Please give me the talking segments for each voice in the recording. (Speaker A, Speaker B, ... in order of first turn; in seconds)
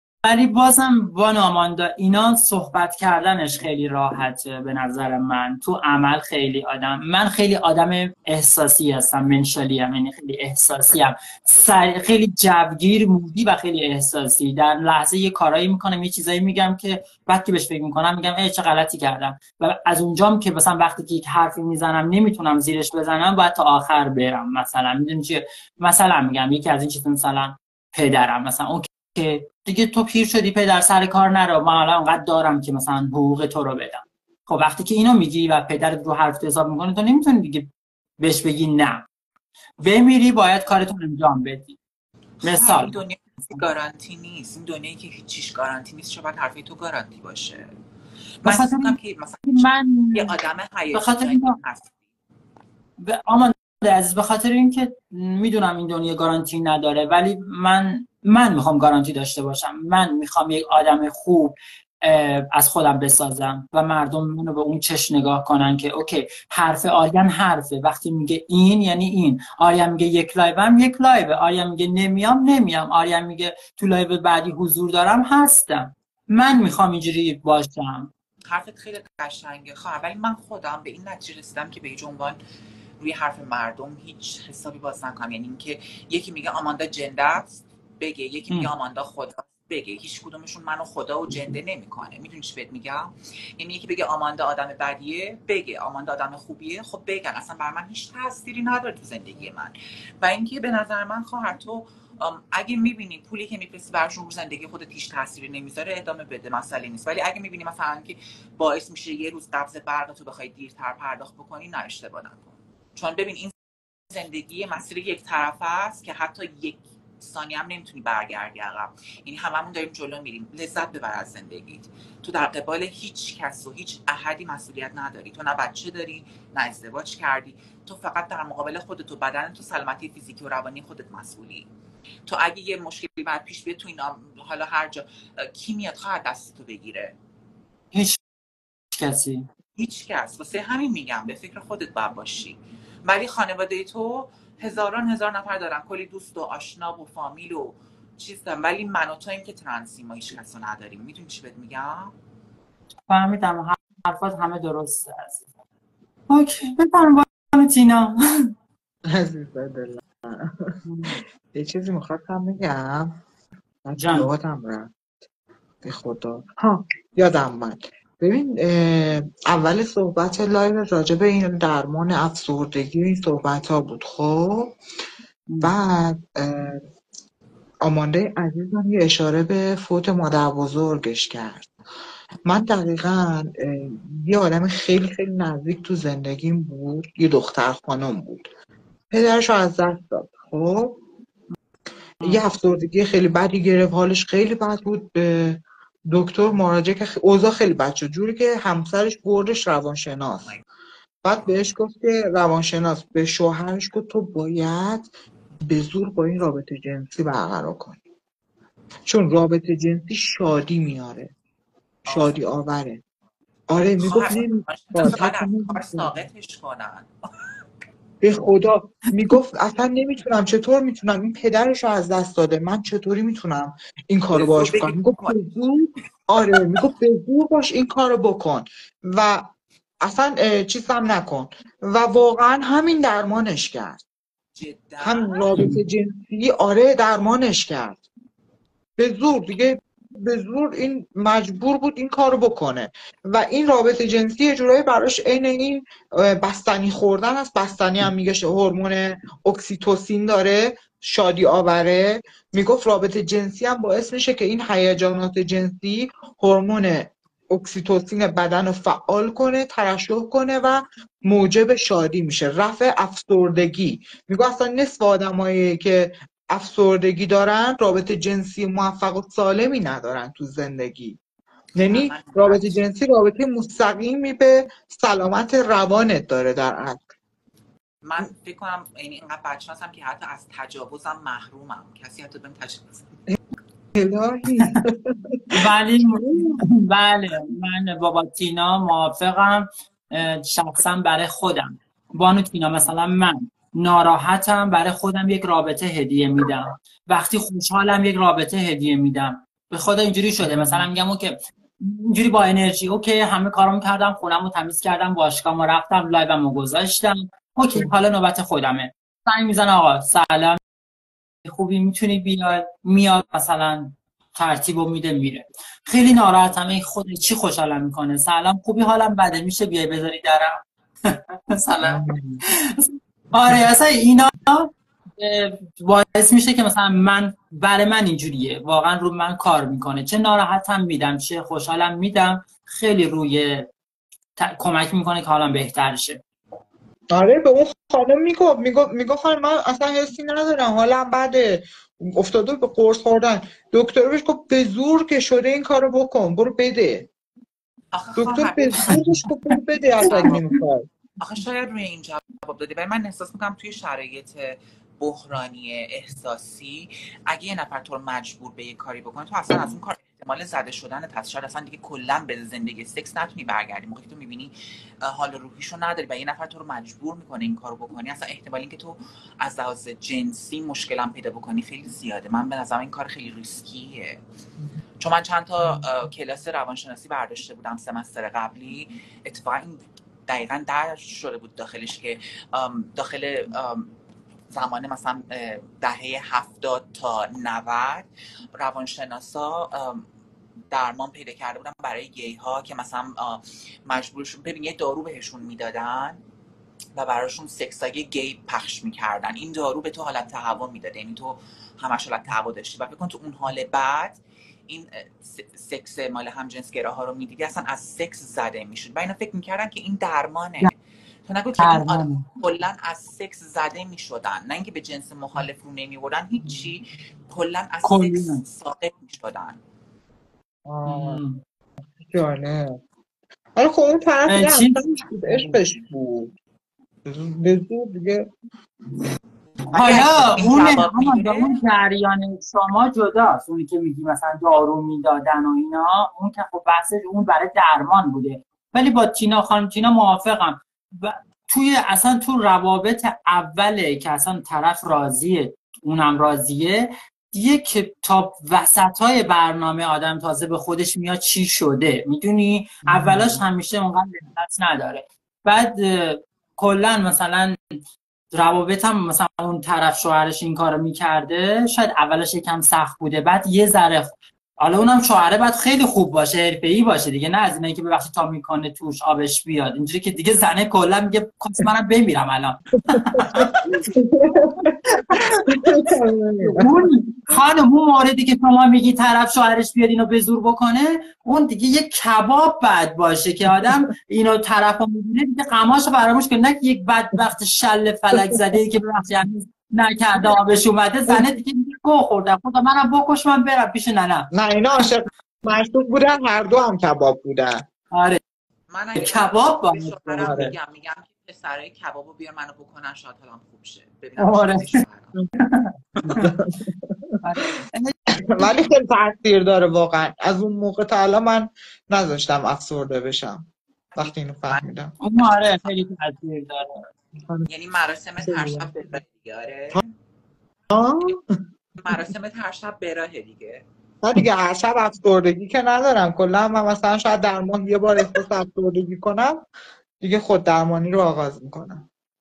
Speaker A: 0.2-39.0, 39.8-41.8, 42.4-43.6, 48.5-50.4, 50.9-51.6, 53.0-78.1, 137.9-138.2, 138.9-139.5, 153.1-155.4, 156.3-158.5, 160.8-161.2, 164.0-164.3, 175.5-175.7, 285.5-310.6, 311.4-333.7, 334.4-336.2, 350.2-350.5, 411.6-412.2, 417.9-418.4, 420.9-421.4, 424.3-425.6, 429.8-457.8, 458.3-473.7, 474.9-475.9, 476.5-494.3, 497.9-498.2, 499.0-500.6, 504.2-504.8, 505.4-506.3, 507.2-508.5, 515.0-516.9
Speaker B: 42.4-47.7, 48.4-51.9, 78.5-82.4, 83.0-113.5, 114.1-131.7, 132.3-137.1, 139.8-152.1, 212.1-212.4, 214.0-217.1, 224.3-225.4, 234.6-235.4, 271.8-272.8, 278.0-283.1, 347.9-349.0, 350.0-350.4, 351.2-374.2, 375.0-383.9, 384.5-390.1, 390.7-396.2, 397.0-410.7, 411.3-419.6, 429.7-431.6, 498.7-505.2, 515.1-515.9, 517.5-519.9, 521.8-523.6
Speaker C: 159.1-160.8, 161.5-163.2, 163.8-164.9, 165.8-174.8, 175.6-176.8, 177.8-181.7, 182.5-188.5, 189.1-191.0, 192.2-200.5, 201.2-205.1, 205.7-208.0, 209.1-211.3, 212.1-213.0, 213.7-216.1, 218.2-229.5, 230.0-234.0, 235.0-238.0, 239.0-271.2, 271.8-277.0, 283.9-285.6, 286.1-286.6, 300.4-300.9, 321.8-322.4, 337.1-347.1, 348.2-350.9, 420.7-421.2, 422.0-422.8, 423.6-426.3, 427.1-428.3, 452.9-453.4, 472.9-476.8, 494.3-497.7, 500.2-500.4, 506.0-507.2, 508.2-514.9, 518.2-518.7, 520.7-521.2, 524.0-529.4, 530.0-531.9